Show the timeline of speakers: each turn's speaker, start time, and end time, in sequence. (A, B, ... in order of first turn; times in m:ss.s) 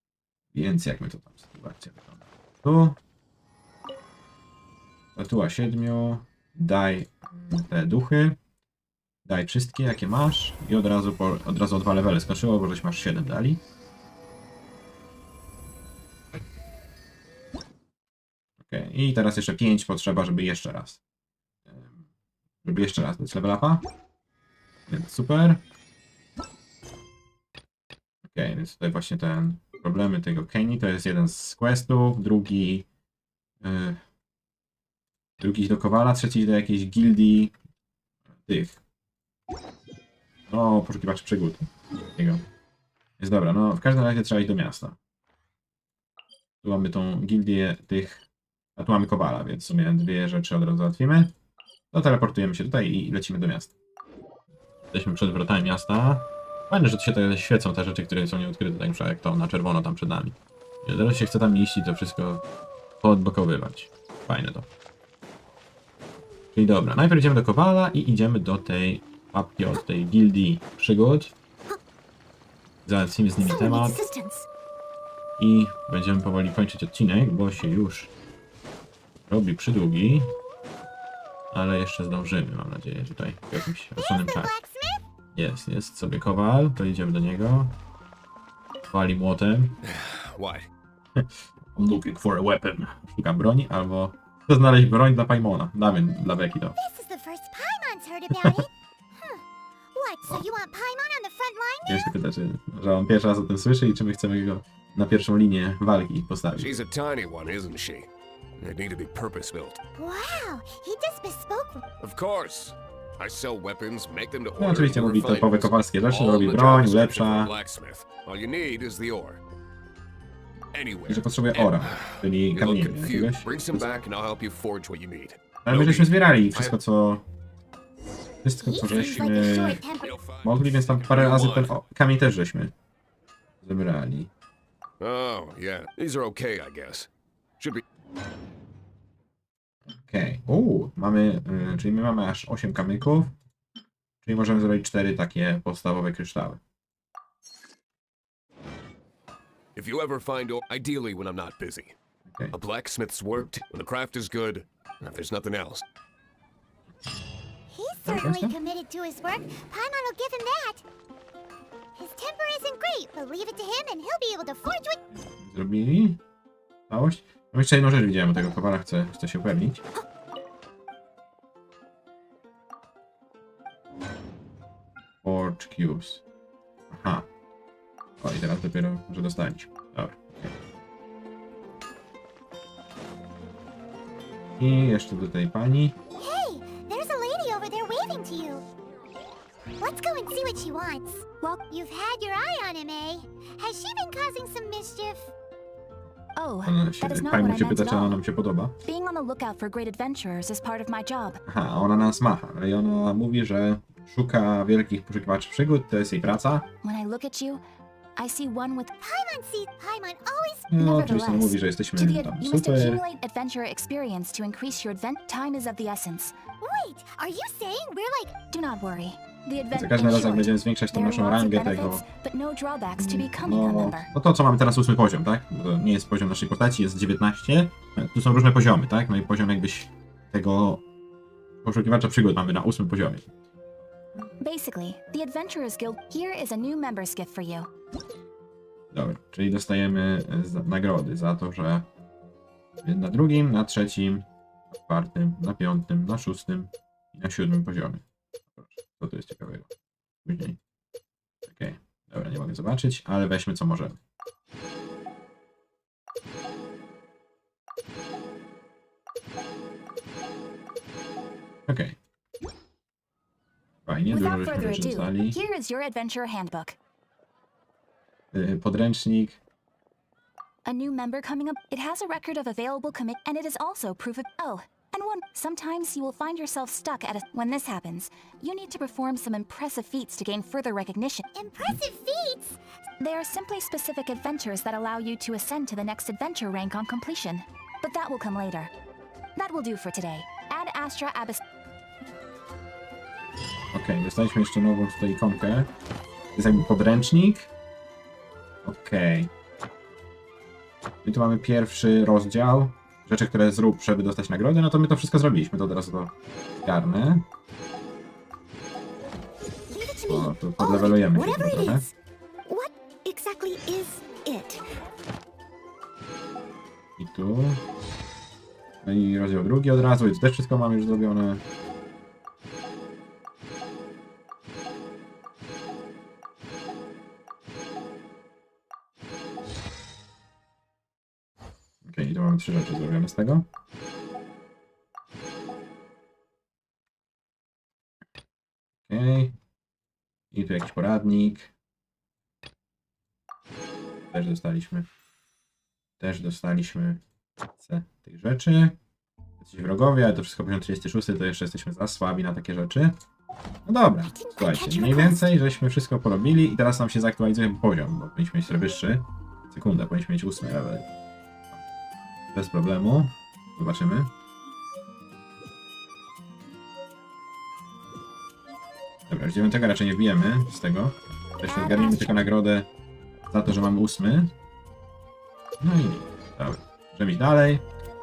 0:00.5-0:03.0 A
0:05.2-0:08.4 A
0:09.2-0:13.6 A
0:18.6-0:21.0 A
0:21.7-0:22.0 A
0:22.6-0:23.8 A
0:24.9-0:25.6 A
0:28.2-0:32.9 A
0:33.6-0:34.0 A
0:35.4-0:37.5 A
0:38.4-0:38.8 A
0:40.5-0:42.4 A
0:43.2-0:45.0 A
0:46.6-0:48.2 A
0:48.8-0:51.3 A
0:51.9-0:53.7 A
0:54.9-1:02.4 A
1:03.0-1:04.7 A
1:06.5-1:11.3 A
1:12.8-1:14.0 A
1:13.4-1:14.5 B
1:15.4-1:18.1 A
1:19.3-1:20.3 A
1:21.5-1:24.5 A
1:24.0-1:25.0 B
1:25.3-1:27.8 A
1:28.9-1:29.8 A
1:29.8-1:30.7 C
1:31.2-1:36.8 A
1:36.8-1:42.1 B
1:41.8-1:46.8 A
1:46.6-1:49.8 C
1:49.9-1:51.8 B
1:52.0-1:59.4 C
1:54.6-1:57.5 A
2:00.7-2:06.8 C
2:01.0-2:03.8 A
2:05.6-2:07.2 A
2:08.4-2:09.8 A
2:08.6-2:10.2 B
2:09.2-2:11.8 C
2:10.4-2:12.7 A
2:13.6-2:14.3 A
2:15.0-2:17.1 C
2:19.9-2:23.3 A
2:24.2-2:26.6 A
2:29.7-2:31.9 C
2:32.3-2:32.6 A
2:32.5-2:35.8 C
2:37.7-2:40.8 B
2:38.0-2:38.5 A
2:42.0-2:45.1 B
2:45.1-2:46.2 A
2:46.9-2:49.8 A
2:55.2-2:56.2 A
2:56.9-2:57.3 A
2:58.2-3:00.5 A
3:04.6-3:06.0 A
3:06.2-3:08.7 B
3:09.8-3:15.3 B
3:16.4-3:18.2 D
3:16.6-3:18.8 A
3:18.8-3:21.4 D
3:21.4-3:26.6 A
3:26.8-3:27.6 D
3:28.2-3:28.9 D
3:29.0-3:30.7 B
3:30.7-3:33.0 A
3:30.8-3:36.3 D
3:36.6-3:38.4 B
3:38.5-3:44.1 D
3:39.7-3:42.0 A
3:43.0-3:50.8 A
3:51.6-3:53.3 A
3:54.4-3:57.7 D
3:58.9-4:01.8 A
4:02.8-4:08.0 A
4:08.5-4:09.7 A
4:10.2-4:10.6 A
4:11.5-4:14.0 A
4:21.7-4:22.0 A
4:23.8-4:25.4 A
4:24.1-4:26.8 D
4:28.3-4:29.4 A
4:30.6-4:41.3 D
4:41.3-4:42.6 B
4:43.0-4:48.7 D
4:49.4-4:51.4 D
4:53.7-4:55.7 A
4:56.3-4:57.5 A
4:58.6-4:59.3 A
5:01.0-5:07.2 A
5:09.7-5:11.9 B
5:10.1-5:11.9 A
5:12.4-5:14.6 B
5:17.0-5:17.6 A
5:18.8-5:21.4 A
5:31.8-5:33.5 A
5:38.9-5:39.4 A
5:40.3-5:41.5 A
5:44.1-5:44.9 A
5:46.0-5:47.0 A
5:47.6-5:48.8 A
5:49.4-5:53.0 A
5:53.6-6:00.9 A
5:54.1-5:55.3 B
6:02.3-6:04.1 A
6:09.1-6:12.7 A
6:11.5-6:12.2 D
6:13.3-6:14.3 A
6:15.6-6:17.6 A